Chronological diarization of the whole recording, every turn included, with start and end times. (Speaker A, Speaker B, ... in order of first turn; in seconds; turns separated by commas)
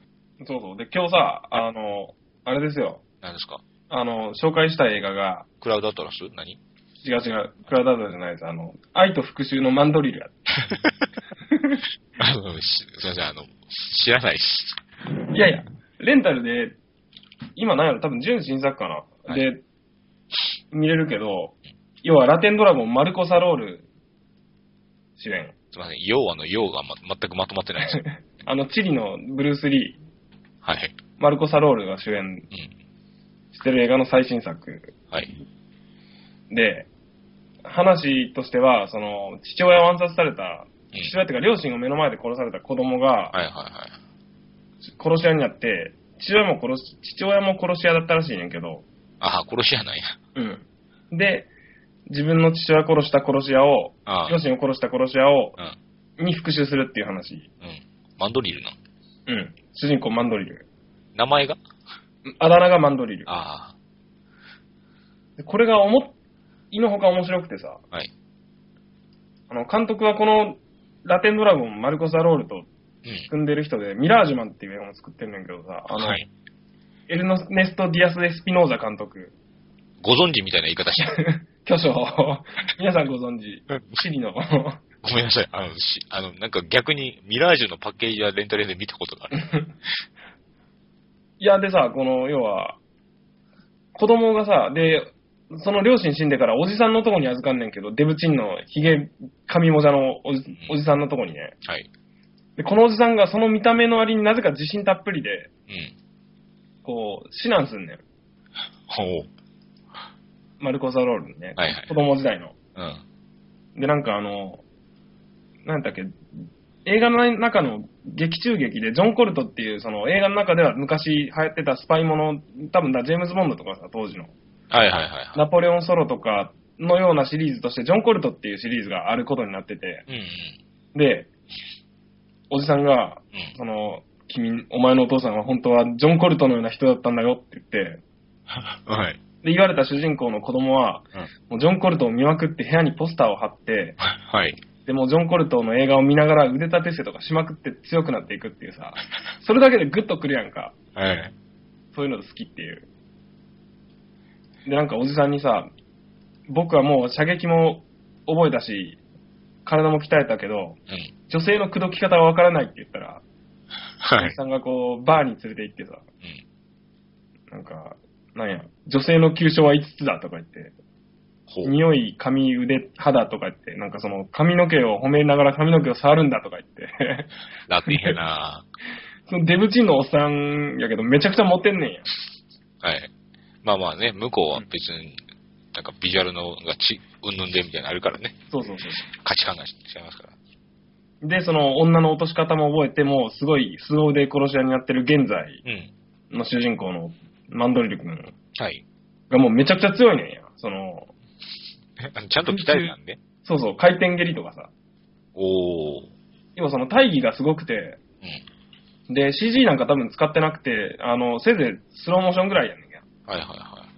Speaker A: 0.4-3.0, Speaker B: 3.2-3.6, Speaker A: 3.9-5.5, Speaker B: 5.6-6.6, Speaker A: 7.0-10.3, Speaker B: 10.7-11.0, Speaker A: 11.5-11.8, Speaker B: 12.2-14.8, Speaker A: 15.3-16.8, Speaker A: 17.6-19.6, Speaker A: 20.7-23.9, Speaker A: 25.2-25.5, Speaker B: 25.7-28.0, Speaker A: 27.8-30.0, Speaker B: 30.6-31.0, Speaker A: 31.2-32.5, Speaker A: 33.5-34.9, Speaker A: 36.5-36.9, Speaker A: 37.6-43.3, Speaker B: 43.3-44.0, Speaker A: 45.0-48.8, Speaker B: 49.2-50.1, Speaker A: 50.4-51.5, Speaker A: 52.1-55.5, Speaker B: 54.0-54.4, Speaker A: 56.2-57.5, Speaker B: 57.6-58.8, Speaker A: 59.3-60.6, Speaker B: 61.1-61.6, Speaker A: 62.3-63.3, Speaker B: 63.3-63.7, Speaker A: 65.4-66.1, Speaker A: 66.7-67.8, Speaker A: 69.5-72.7, Speaker A: 73.3-76.2, Speaker B: 75.9-76.3, Speaker A: 77.1-79.3, Speaker B: 80.0-81.2, Speaker A: 81.0-84.8, Speaker B: 85.0-89.5, Speaker A: 91.4-92.8, Speaker A: 93.9-101.5, Speaker A: 102.6-105.5, Speaker B: 105.7-105.9, Speaker A: 106.8-108.0, Speaker B: 108.9-109.3, Speaker A: 110.6-112.5, Speaker B: 111.6-111.9, Speaker B: 112.8-113.0, Speaker A: 113.8-114.6, Speaker A: 115.6-116.2, Speaker A: 116.8-124.3, Speaker B: 124.7-125.4, Speaker A: 125.3-130.1, Speaker B: 130.1-130.6, Speaker A: 130.9-131.3, Speaker A: 132.5-138.0, Speaker B: 138.7-139.2, Speaker A: 139.4-144.0, Speaker B: 144.1-144.6, Speaker A: 144.8-150.8, Speaker B: 150.9-151.3, Speaker A: 151.9-152.9, Speaker A: 154.6-155.7, Speaker A: 156.5-159.0, Speaker A: 159.6-160.8, Speaker A: 161.3-163.2, Speaker B: 164.0-164.4, Speaker A: 164.2-166.1, Speaker A: 167.5-170.7, Speaker B: 171.5-171.8, Speaker A: 171.6-177.3, Speaker B: 177.7-178.6, Speaker A: 177.9-178.2, Speaker A: 179.3-182.1, Speaker B: 182.8-183.1, Speaker B: 183.6-185.2, Speaker B: 185.7-188.4, Speaker A: 188.5-189.1, Speaker B: 189.0-190.3, Speaker A: 191.2-195.6, Speaker B: 195.6-195.9, Speaker A: 196.3-198.3, Speaker B: 198.6-198.8, Speaker A: 199.3-201.1, Speaker B: 202.0-203.2, Speaker A: 202.5-204.7, Speaker B: 205.3-206.1, Speaker A: 206.6-208.0, Speaker A: 209.1-213.0, Speaker B: 213.3-213.9